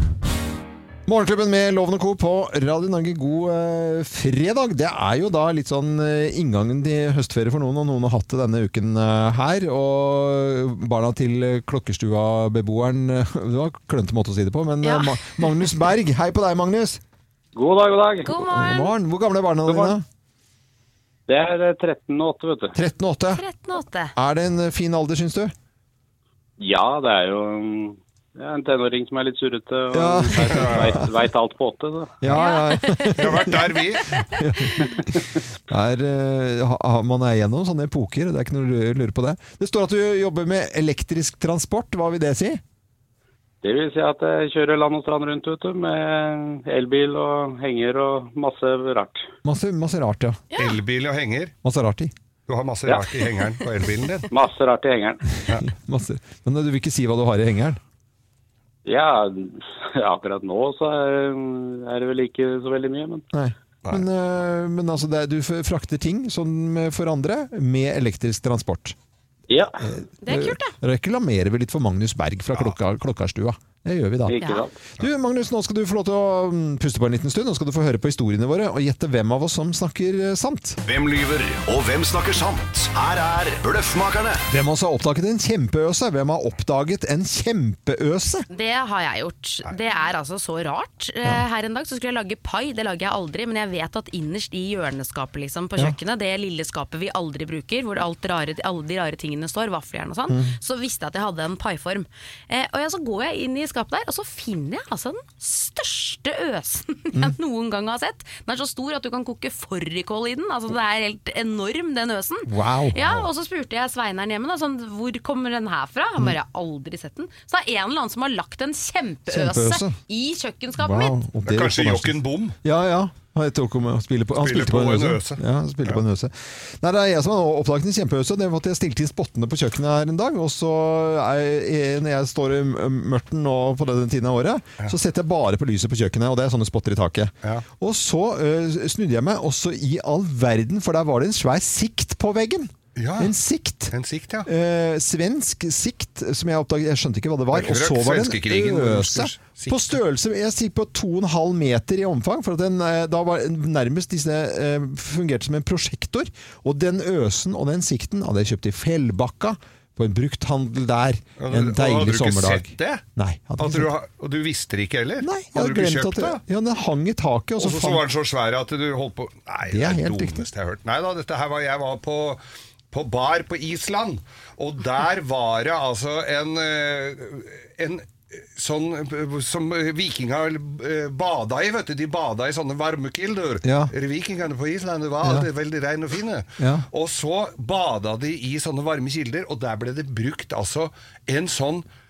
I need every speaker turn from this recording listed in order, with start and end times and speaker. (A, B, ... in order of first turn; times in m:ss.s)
0:01.1-0:17.0 A
0:14.8-0:15.7 B
0:17.6-0:18.3 C
0:18.2-0:18.9 B
0:18.3-0:20.0 A
0:19.7-0:20.0 C
0:21.3-0:22.7 C
0:22.8-0:23.4 A
0:23.4-0:24.1 B
0:24.2-0:25.5 A
0:26.6-0:32.2 C
0:29.9-0:31.1 A
0:30.5-0:30.9 D
0:32.2-0:42.6 A
0:32.3-0:33.5 B
0:33.1-0:34.1 D
0:43.6-0:49.2 C
0:49.4-0:50.4 A
0:50.5-0:50.8 B
0:50.5-0:51.6 D
0:51.6-0:52.1 A
0:52.5-0:54.3 D
0:52.9-0:53.2 C
0:54.3-0:55.2 C
0:55.5-0:57.8 A
0:58.8-1:03.3 C
1:03.3-1:09.0 A
1:09.5-1:09.8 C
1:09.8-1:14.4 A
1:10.2-1:10.8 B
1:14.3-1:14.8 C
1:14.4-1:14.7 B
1:14.9-1:20.8 A
1:20.8-1:24.5 E
1:24.5-1:28.5 A
1:28.5-2:01.2 B
1:40.3-1:40.6 A
1:52.5-1:53.3 A
1:59.3-2:00.0 A
2:00.8-2:24.0 A
2:01.4-2:02.6 D
2:04.3-2:06.0 D
2:23.0-2:23.3 D
2:23.9-2:24.5 D
2:24.5-2:43.9 A
2:27.5-2:30.0 D
2:41.4-2:43.0 D
2:43.6-2:46.4 D
2:45.2-2:48.0 A
2:47.6-3:11.9 D
2:49.7-2:50.5 A
3:03.6-3:03.9 A
3:05.2-3:05.5 A
3:06.6-3:06.9 A